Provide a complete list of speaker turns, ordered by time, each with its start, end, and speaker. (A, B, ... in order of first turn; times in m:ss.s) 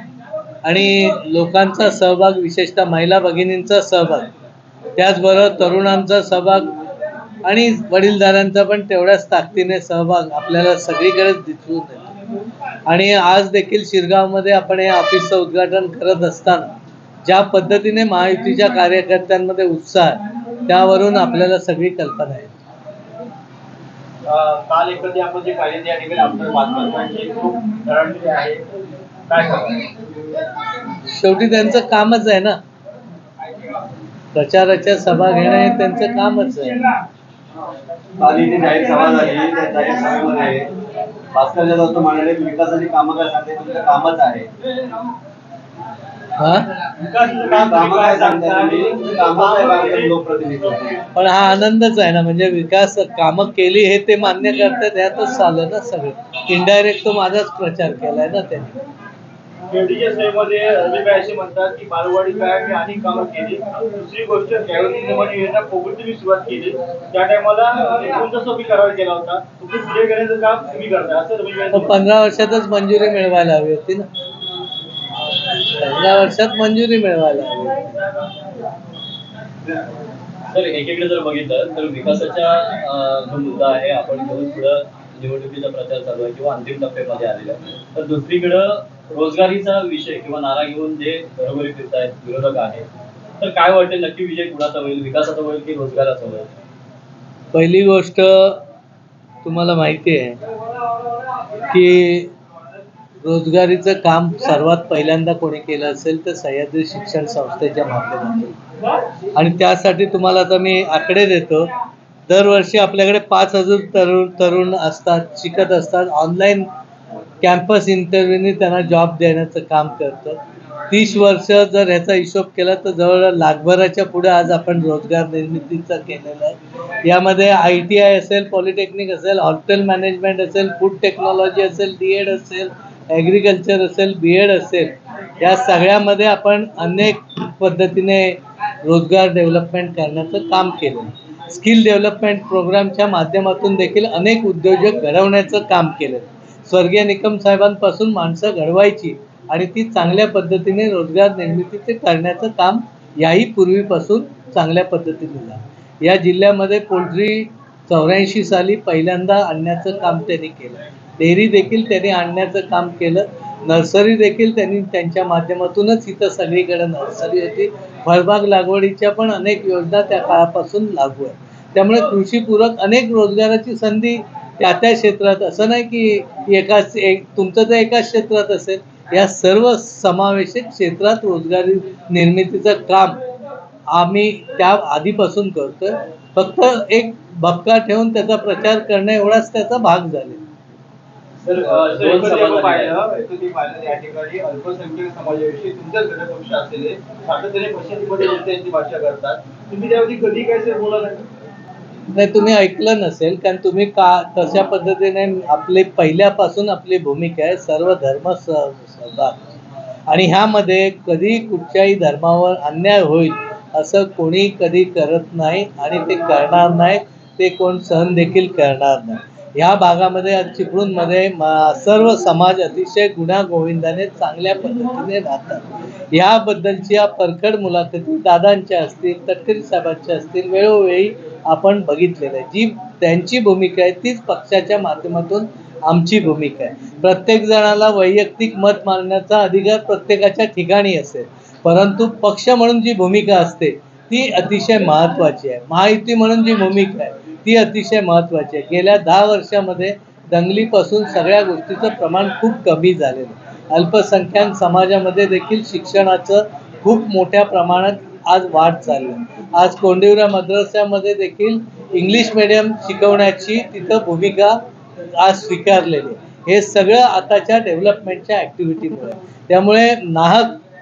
0:00.6-0:04.3 A
0:05.0-0:06.7 A
0:07.4-0:12.1 A
0:12.8-0:16.7 A
0:17.2-0:22.5 A
0:24.3-0:28.6 B
0:29.3-0:29.9 B
0:31.1-0:32.6 A
0:34.3-0:36.8 A
0:38.2-0:40.7 C
0:41.3-0:44.5 C
0:46.4-0:46.7 A
0:47.0-0:50.1 B
0:47.5-0:51.0 C
0:51.2-0:58.7 A
0:59.7-1:11.9 B
1:11.7-1:14.1 A
1:15.6-1:18.0 A
1:20.5-1:32.9 D
1:33.4-1:36.5 D
1:37.5-1:38.6 A
1:39.4-1:40.4 A
1:41.7-1:42.3 A
1:43.2-1:48.5 A
1:49.3-1:51.7 A
1:52.3-1:56.7 A
1:57.4-2:00.4 A
2:00.9-3:03.2 A
3:03.9-3:10.4 A
3:11.4-3:12.9 D
3:11.8-3:12.7 C
3:12.0-3:13.3 B
3:13.3-3:15.7 C
3:14.5-3:21.2 B
3:22.1-3:29.5 A
3:30.1-4:24.6 A
4:25.1-4:30.6 A